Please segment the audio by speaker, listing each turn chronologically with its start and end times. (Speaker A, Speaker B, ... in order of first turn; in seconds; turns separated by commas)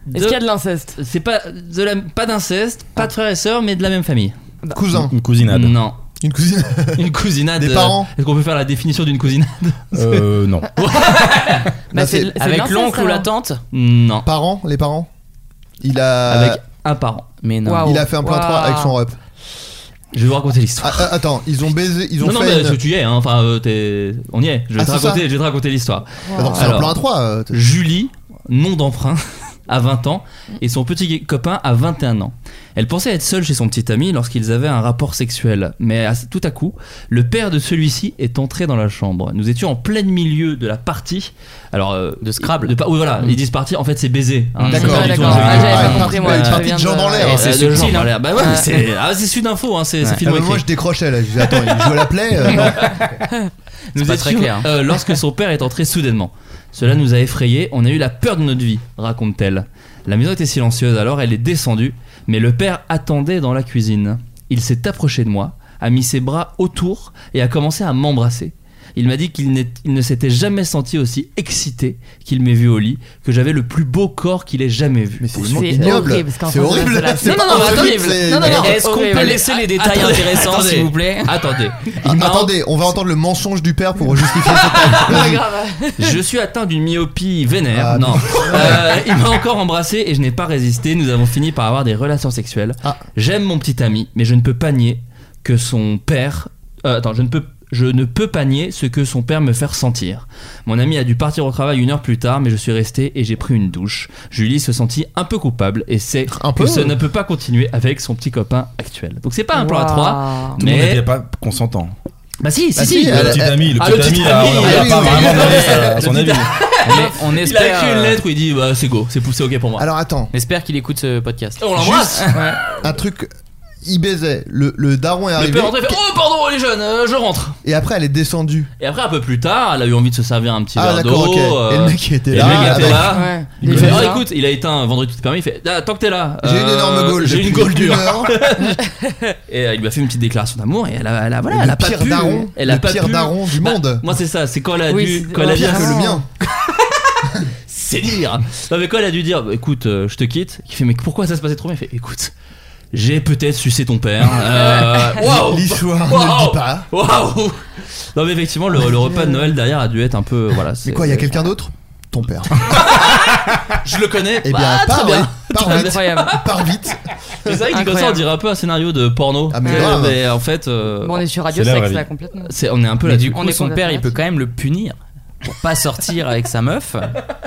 Speaker A: 0.1-0.4, Speaker B: 0.1-1.0, Speaker A: 0.9-4.3, Speaker C: 4.7-5.2, Speaker D: 4.9-5.8, Speaker A: 5.4-6.0, Speaker C: 6.2-7.0, Speaker A: 7.0-10.2, Speaker C: 7.5-8.1, Speaker D: 9.9-10.7, Speaker A: 10.7-11.7, Speaker B: 11.9-13.3, Speaker C: 11.9-12.3, Speaker E: 12.3-13.6, Speaker A: 13.7-14.3, Speaker C: 14.2-15.1, Speaker C: 15.8-16.6, Speaker A: 16.3-17.3, Speaker E: 17.4-18.0, Speaker B: 17.6-18.9, Speaker C: 17.8-19.2, Speaker A: 20.1-21.2, Speaker C: 20.8-22.8, Speaker A: 22.2-46.7, Speaker C: 24.8-25.2, Speaker B: 26.2-26.8, Speaker C: 26.3-27.6, Speaker E: 42.2-43.4, Speaker E: 44.5-46.2, Speaker C: 44.7-47.5, Speaker B: 44.7-47.5, Speaker E: 47.2-48.2, Speaker A: 47.2-50.7, Speaker B: 48.3-48.8, Speaker C: 50.2-53.2, Speaker A: 51.5-51.9, Speaker A: 52.4-53.1, Speaker A: 53.9-76.1, Speaker E: 54.0-54.7, Speaker C: 75.2-78.8, Speaker B: 75.4-77.7, Speaker A: 77.2-82.6, Speaker E: 77.4-81.3, Speaker B: 78.6-79.5, Speaker C: 82.0-85.4, Speaker B: 84.5-86.2, Speaker A: 84.6-85.3, Speaker A: 86.0-111.0, Speaker C: 87.7-88.9, Speaker C: 106.3-107.0, Speaker B: 109.5-110.6, Speaker D: 110.6-111.9, Speaker A: 112.4-119.9, Speaker C: 112.8-116.0, Speaker D: 113.0-116.5, Speaker E: 116.8-118.2, Speaker C: 119.8-120.3, Speaker E: 120.3-122.5, Speaker A: 121.6-122.8, Speaker B: 122.3-122.6, Speaker C: 122.8-123.3, Speaker C: 123.8-126.0, Speaker A: 125.3-127.6, Speaker C: 127.6-128.7, Speaker A: 128.8-138.8, Speaker C: 130.7-133.2, Speaker D: 132.3-134.1, Speaker B: 133.1-134.2, Speaker C: 136.4-138.4, Speaker A: 139.5-152.3, Speaker C: 141.5-144.1, Speaker B: 144.9-146.2, Speaker C: 145.5-146.2, Speaker A: 152.9-161.4, Speaker B: 154.5-155.2, Speaker C: 155.2-156.9, Speaker B: 159.0-159.5, Speaker C: 160.8-162.8, Speaker A: 162.6-166.5, Speaker C: 164.4-167.0, Speaker B: 165.6-166.3, Speaker A: 167.4-171.2, Speaker B: 167.7-168.3, Speaker C: 169.5-170.2, Speaker B: 169.6-170.1, Speaker B: 171.0-172.5, Speaker D: 171.5-172.1, Speaker A: 172.4-173.4, Speaker E: 173.0-177.2, Speaker B: 173.3-174.2